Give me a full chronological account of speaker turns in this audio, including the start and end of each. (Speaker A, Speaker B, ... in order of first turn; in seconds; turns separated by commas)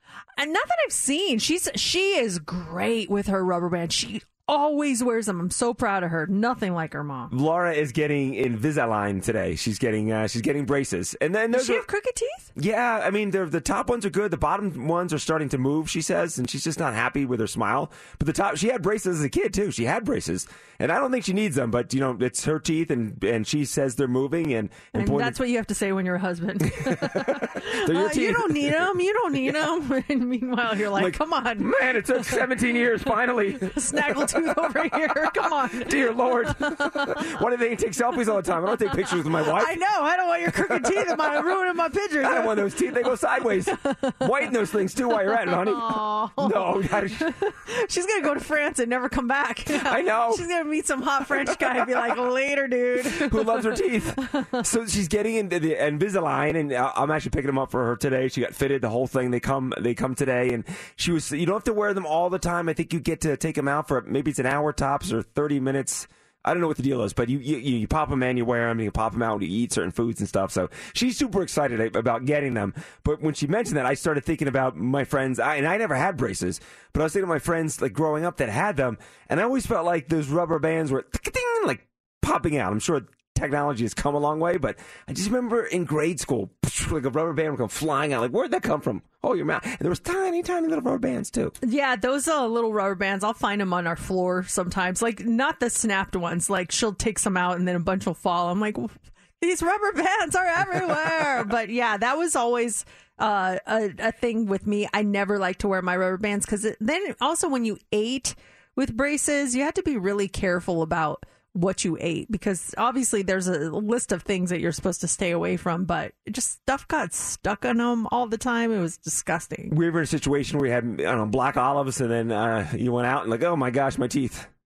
Speaker A: 0.4-7.3, Speaker B: 7.3-11.8, Speaker A: 11.5-12.5, Speaker B: 12.6-25.4, Speaker A: 24.9-32.4, Speaker B: 26.8-28.9, Speaker B: 30.9-39.8, Speaker A: 33.7-37.2, Speaker A: 39.1-42.7, Speaker B: 40.5-41.5, Speaker B: 42.2-47.3, Speaker A: 43.7-44.5, Speaker A: 45.1-54.6, Speaker B: 49.7-50.4, Speaker B: 51.5-52.1, Speaker B: 53.0-91.5, Speaker A: 91.6-119.7, Speaker B: 119.7-124.5